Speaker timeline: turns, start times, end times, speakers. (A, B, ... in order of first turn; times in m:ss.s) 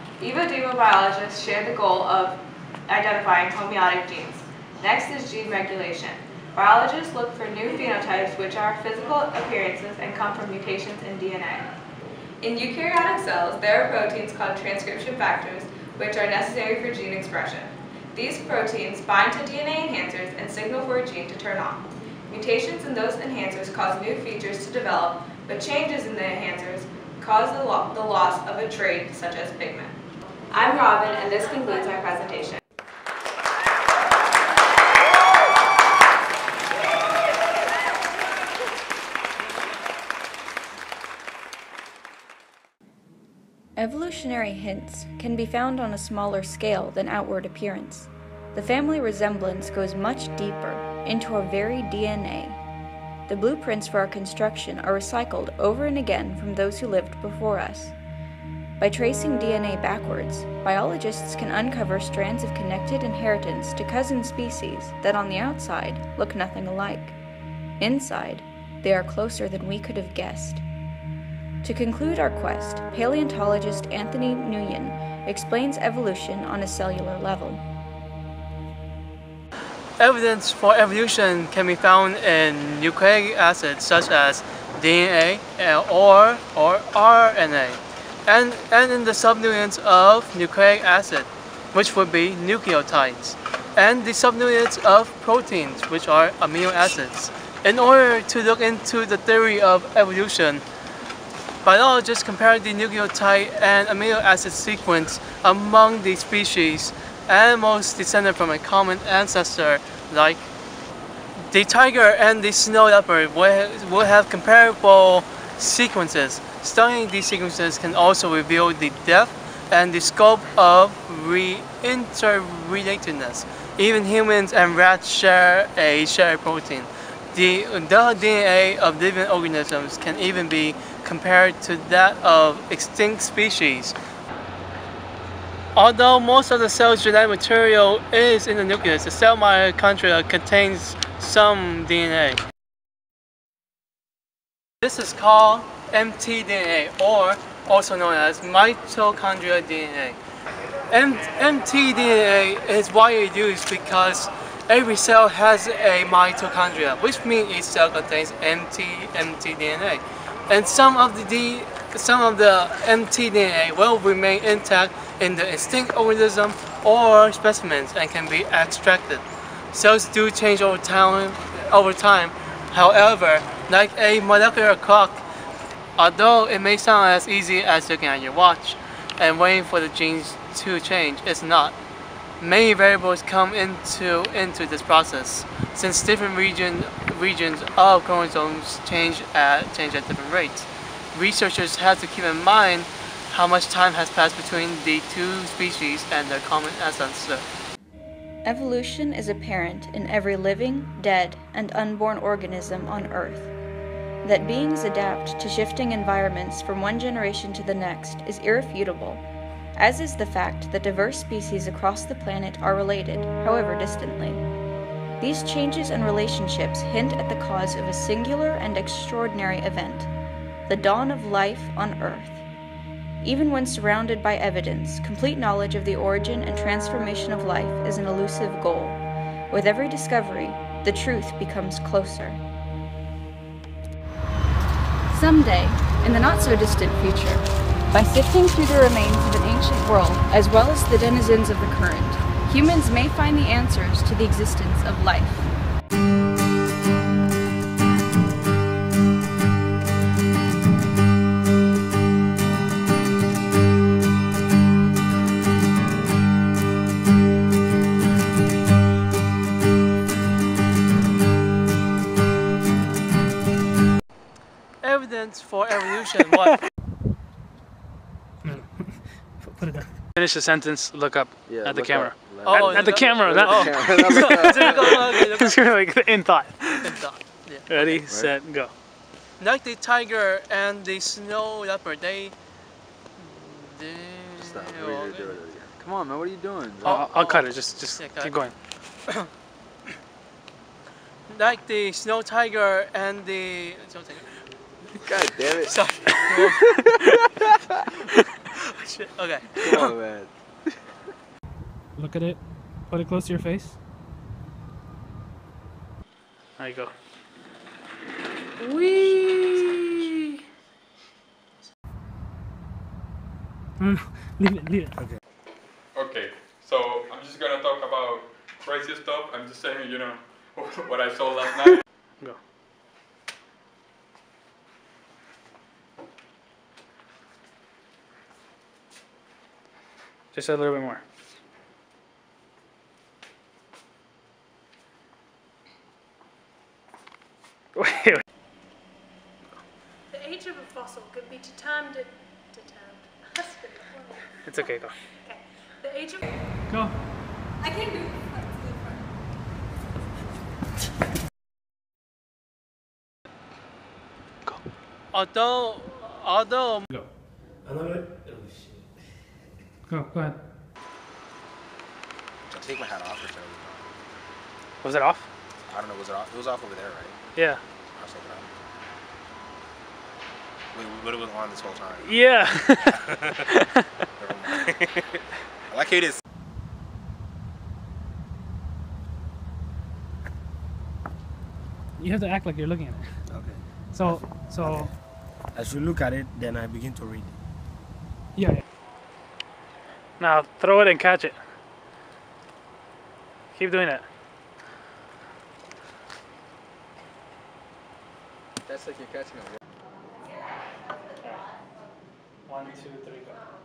0:00.2-0:11.7 A
0:12.4-0:29.9 A
0:30.5-0:32.6 A
0:43.8-0:52.6 B
0:53.3-0:57.9 B
0:58.8-1:07.2 B
1:07.8-1:10.6 B
1:11.6-1:17.6 B
1:20.0-1:40.6 C
1:41.6-1:50.5 C
1:51.4-2:14.0 C
2:15.7-2:22.4 C
2:24.8-2:30.2 C
2:30.9-2:55.2 C
2:56.0-3:01.8 C
3:02.4-3:17.4 C
3:18.4-3:23.5 B
3:24.2-3:29.2 B
3:29.8-3:34.4 B
3:35.2-3:40.1 B
3:40.7-3:42.4 B
3:43.2-3:49.0 B
3:49.5-3:52.4 B
3:55.1-4:05.5 B
4:24.8-4:26.6 C
4:28.4-4:37.0 D
4:31.4-4:35.3 E
4:32.4-4:35.6 C
4:36.8-4:38.0 C
4:37.7-4:38.7 D
4:38.1-4:38.3 E
4:39.4-4:42.3 C
4:43.2-4:45.4 C
4:44.4-4:47.3 E
4:46.8-4:48.4 C
4:46.8-4:48.5 D
4:51.3-4:54.3 C
4:55.0-4:56.9 E
4:55.6-4:57.1 C
4:58.5-5:00.0 C
4:59.6-5:00.3 E
5:02.0-5:03.8 D
5:06.6-5:06.9 D
5:08.9-5:10.2 C
5:13.8-5:14.9 D
5:15.9-5:21.8 F
5:30.3-5:31.0 D
5:37.7-5:38.2 D
5:40.1-5:46.4 G
5:44.4-5:44.9 D
5:46.7-5:46.9 D
5:55.1-5:56.9 C
5:57.6-5:58.8 H
5:59.9-6:00.4 D
6:02.5-6:03.9 I
6:04.8-6:05.3 D
6:05.7-6:07.3 I
6:07.4-6:07.6 D
6:07.9-6:08.5 I
6:10.7-6:13.4 I
6:12.0-6:13.8 D
6:14.2-6:16.2 I
6:22.0-6:23.1 D
6:23.3-6:24.9 E
6:23.9-6:24.9 D
6:25.5-6:27.3 H
6:28.3-6:28.6 D
6:30.2-6:31.4 D
6:33.5-6:34.0 D
6:38.6-6:39.6 E
6:42.4-6:43.4 D